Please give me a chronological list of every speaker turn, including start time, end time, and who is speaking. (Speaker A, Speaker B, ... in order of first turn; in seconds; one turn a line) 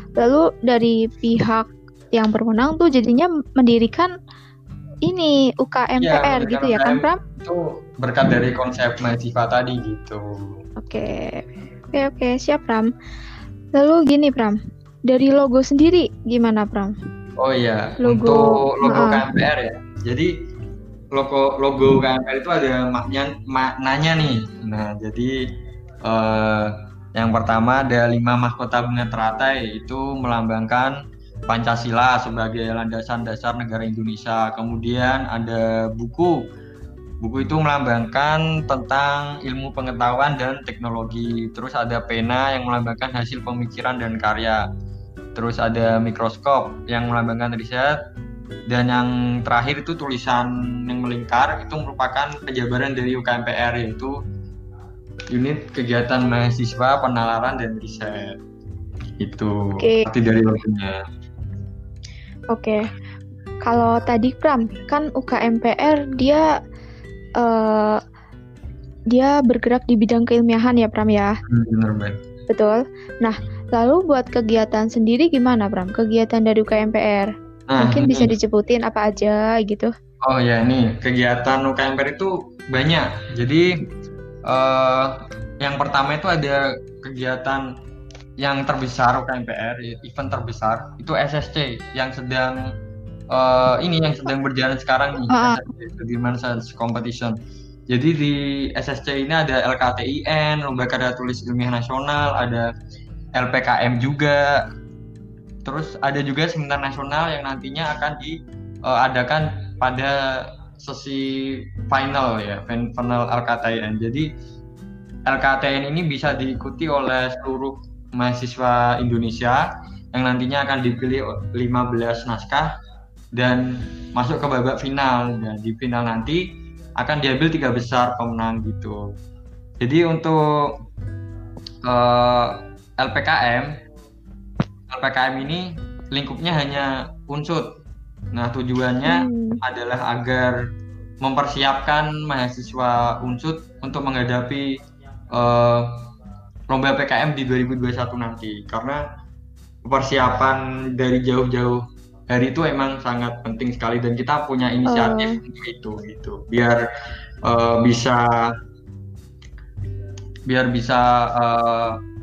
Speaker A: 0.2-4.1
Speaker A: 5.1-7.2
Speaker B: 6.0-10.6
Speaker A: 10.8-12.9
Speaker A: 13.8-14.6
Speaker A: 15.1-16.9
Speaker B: 17.4-20.3
Speaker A: 18.0-19.2
Speaker B: 21.1-25.3
Speaker B: 26.1-36.4
Speaker B: 37.2-44.6
Speaker B: 45.4-48.0
Speaker B: 48.7-54.1
Speaker B: 55.3-58.4
Speaker B: 59.2-61.0
Speaker A: 59.8-60.0
Speaker A: 62.5-62.9
Speaker A: 63.6-66.5
Speaker A: 67.4-68.0
Speaker A: 69.1-71.3
Speaker B: 71.5-72.2
Speaker A: 72.5-79.9
Speaker B: 77.7-78.3
Speaker B: 80.3-83.7
Speaker B: 84.5-87.6
Speaker B: 88.4-92.6
Speaker B: 93.3-97.4
Speaker A: 95.3-95.6
Speaker B: 97.9-102.7
Speaker B: 103.4-104.6
Speaker B: 105.7-114.3
Speaker B: 115.3-122.7
Speaker B: 123.4-126.4
Speaker B: 127.0-129.0
Speaker B: 129.8-130.7
Speaker B: 131.8-133.7
Speaker B: 134.9-137.7
Speaker B: 138.3-140.6
Speaker A: 139.1-139.6
Speaker B: 141.2-144.7
Speaker B: 145.3-146.0
Speaker B: 146.7-149.0
Speaker B: 149.9-156.8
Speaker A: 154.9-155.4
Speaker B: 157.5-158.5
Speaker B: 160.5-161.9